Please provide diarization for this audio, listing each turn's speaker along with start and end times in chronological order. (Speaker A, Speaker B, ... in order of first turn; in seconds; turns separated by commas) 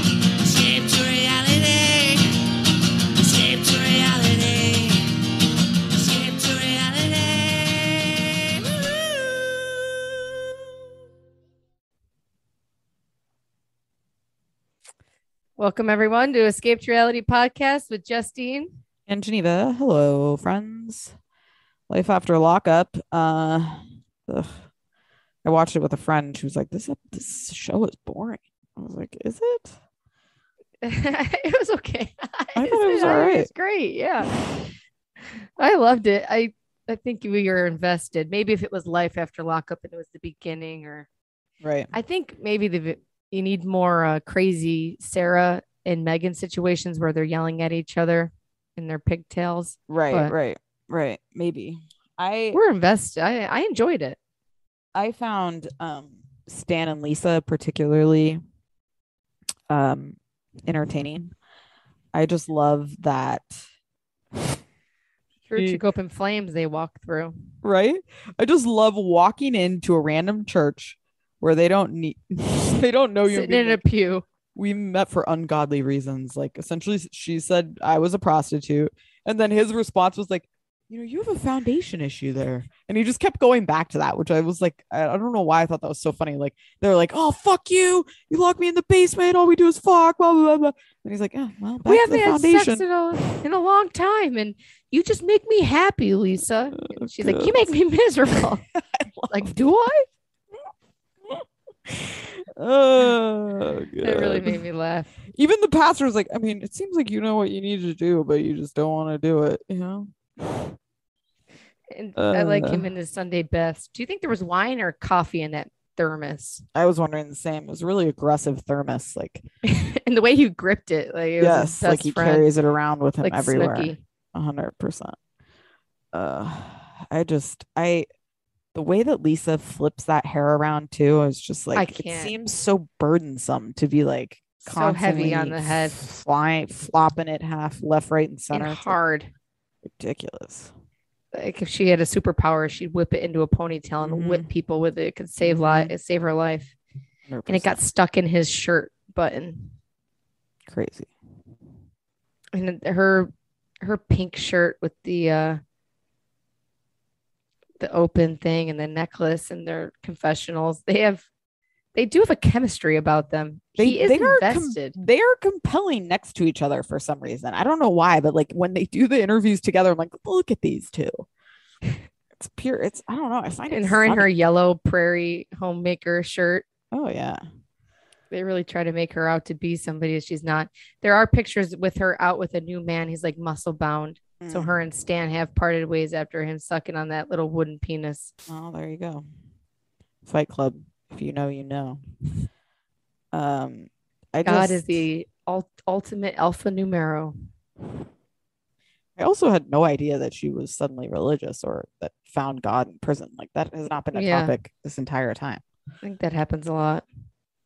Speaker A: 0.4-2.3, Speaker A: 3.1-5.0, Speaker A: 5.9-8.7, Speaker B: 15.6-18.7, Speaker C: 19.1-21.1, Speaker C: 21.9-24.5, Speaker C: 25.4-29.7, Speaker B: 30.8-34.3, Speaker C: 32.6-33.5, Speaker B: 35.3-41.1, Speaker C: 41.6-41.9, Speaker B: 41.9-50.4, Speaker C: 49.9-52.6, Speaker B: 52.5-54.2, Speaker C: 55.0-58.4, Speaker C: 59.7-61.3, Speaker C: 62.1-63.6, Speaker B: 65.5-67.4, Speaker C: 65.5-65.8, Speaker C: 67.6-73.8, Speaker B: 73.2-74.2, Speaker C: 74.6-93.2, Speaker B: 91.8-98.6, Speaker C: 96.9-97.7, Speaker C: 98.3-99.5, Speaker B: 99.3-100.1, Speaker C: 101.3-104.6, Speaker B: 104.0-105.1, Speaker C: 105.3-110.7, Speaker B: 111.9-116.6, Speaker C: 112.2-112.9, Speaker C: 116.8-119.4, Speaker B: 119.6-122.5, Speaker C: 121.4-125.2, Speaker B: 123.2-124.0, Speaker C: 126.1-128.1, Speaker C: 128.7-139.0, Speaker B: 131.7-132.3, Speaker B: 134.6-136.0, Speaker B: 138.5-139.3, Speaker C: 139.9-140.7, Speaker B: 141.3-146.7, Speaker C: 144.0-144.5, Speaker C: 145.4-145.9, Speaker C: 147.3-147.8, Speaker B: 147.5-149.7, Speaker C: 150.7-151.1, Speaker B: 152.5-155.6, Speaker B: 157.8-161.3, Speaker B: 161.9-165.0, Speaker C: 163.8-171.2, Speaker C: 172.4-174.3, Speaker B: 173.7-176.7, Speaker C: 176.9-177.4, Speaker B: 178.3-188.3, Speaker C: 184.4-184.7, Speaker C: 188.5-189.3, Speaker C: 190.3-192.0, Speaker C: 193.3-195.1, Speaker B: 194.4-197.3, Speaker C: 199.2-205.6, Speaker B: 204.1-204.6, Speaker B: 206.0-207.1